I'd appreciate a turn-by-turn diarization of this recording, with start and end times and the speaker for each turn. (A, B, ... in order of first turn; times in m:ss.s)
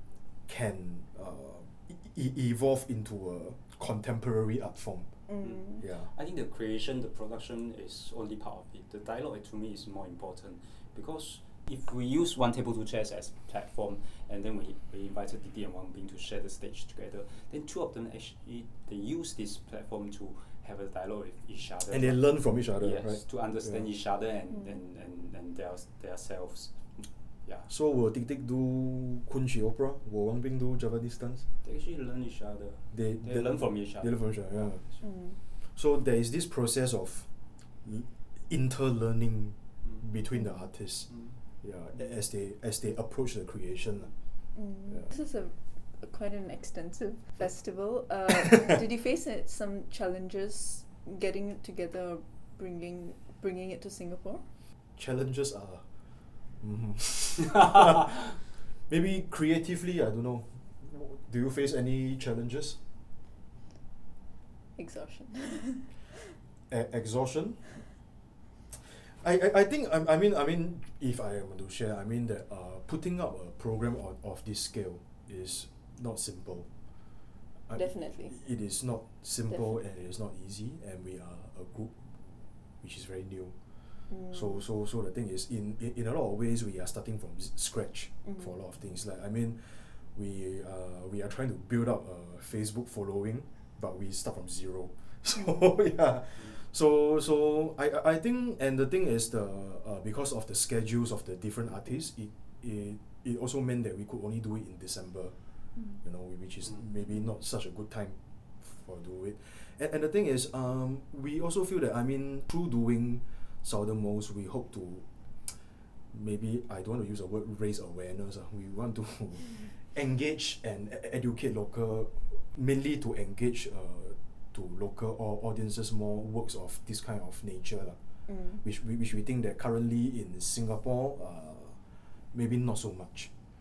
0:00.5-0:05.1 A
0:05.3-0:05.8 B
0:05.4-0:22.2 C
0:05.8-0:06.1 A
0:21.9-0:23.8 A
0:22.8-0:27.7 C
0:27.7-0:31.4 A
0:31.6-0:34.2 C
0:32.9-0:34.8 A
0:35.0-0:35.4 B
0:35.8-0:37.3 A
0:37.8-0:41.1 A
0:40.4-0:40.6 B
0:41.1-0:41.4 C
0:41.6-0:44.1 A
0:44.6-0:54.4 B
0:55.0-0:55.8 A
0:56.6-0:58.4 A
0:58.9-1:02.8 A
1:04.8-1:05.9 B
1:06.7-1:07.6 A
1:09.2-1:16.7 A
1:17.7-1:22.2 A
1:17.8-1:18.3 B
1:22.8-1:23.6 A
1:24.1-1:24.4 B
1:24.3-1:45.4 A
1:46.0-1:55.5 A
1:56.1-2:08.0 A
2:08.3-2:08.6 B
2:08.6-2:11.8 A
2:12.3-2:13.3 A